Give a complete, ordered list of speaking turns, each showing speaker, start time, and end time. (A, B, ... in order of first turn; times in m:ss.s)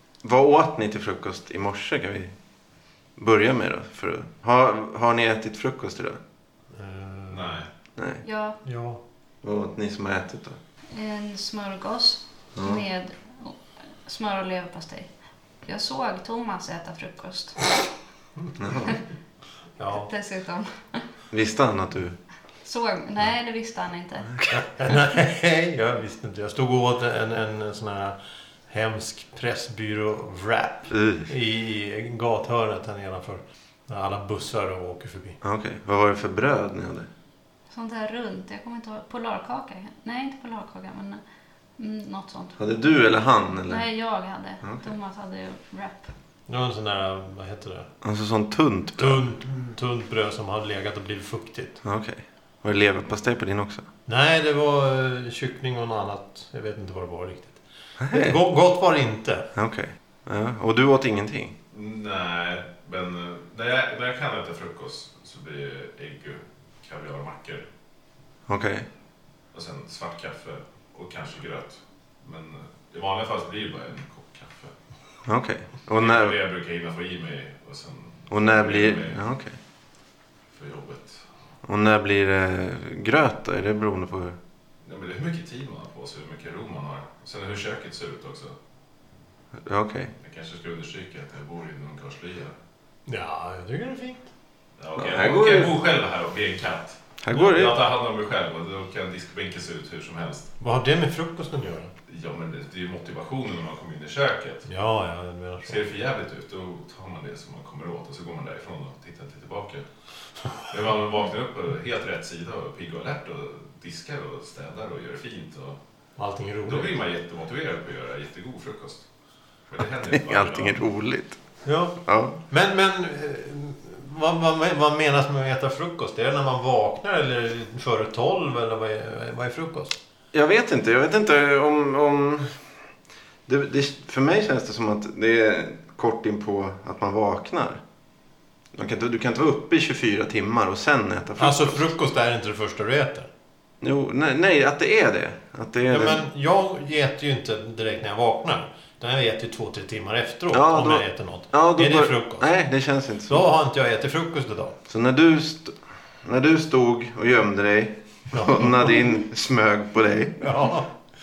0:00.2-0:02.3 A
0:03.2-0:06.2 A
0:06.7-0:07.6 B
0:07.3-0:07.7 C
0:08.0-0:08.2 A
0:08.2-0:08.6 D
0:08.6-0:09.0 B
0:09.4-0:10.6 A
0:10.9-0:15.1 D
0:12.6-0:12.8 A
0:15.6-0:17.8 D
0:18.6-0:19.0 A
0:19.8-0:20.1 B
0:19.9-0:21.0 D
0:21.3-0:22.2 A
0:22.6-0:24.4 D
0:24.5-0:28.2 B
0:28.7-0:35.4 B
0:30.9-0:31.3 A
0:35.4-0:37.1 A
0:37.7-0:41.2 D
0:41.8-0:42.6 D
0:42.6-0:43.9 A
0:43.6-0:46.1 D
0:44.6-0:44.9 A
0:46.5-0:47.9 B
0:48.0-0:49.2 A
0:49.0-0:51.8 B
0:51.8-0:53.8 A
0:54.0-0:59.5 B
0:58.0-0:58.4 A
0:59.5-1:01.5 A
1:01.7-1:07.6 C
1:08.5-1:08.9 A
1:09.5-1:14.7 C
1:15.2-1:16.4 A
1:15.9-1:19.2 C
1:18.3-1:19.6 A
1:20.5-1:21.2 C
1:21.6-1:24.4 A
1:24.8-1:28.5 C
1:29.6-1:30.1 A
1:30.2-1:32.5 C
1:33.0-1:34.3 B
1:34.8-1:40.5 C
1:35.0-1:35.8 A
1:37.2-1:37.8 A
1:40.6-1:41.9 B
1:42.1-1:44.7 C
1:44.7-1:45.8 B
1:45.6-1:49.8 C
1:50.7-1:55.8 C
1:56.2-1:56.9 B
1:56.7-1:59.0 C
1:59.7-2:00.8 C
2:00.1-2:01.4 A
2:01.6-2:10.0 B
2:02.0-2:02.4 A
2:10.3-2:12.6 A
2:13.5-2:17.8 A
2:18.7-2:21.9 A
2:21.4-2:23.3 B
2:23.8-2:26.2 A
2:25.9-2:32.5 B
2:30.5-2:33.5 A
2:33.3-2:34.8 B
2:34.9-2:40.5 A
2:38.3-2:38.9 B
2:40.4-2:40.9 B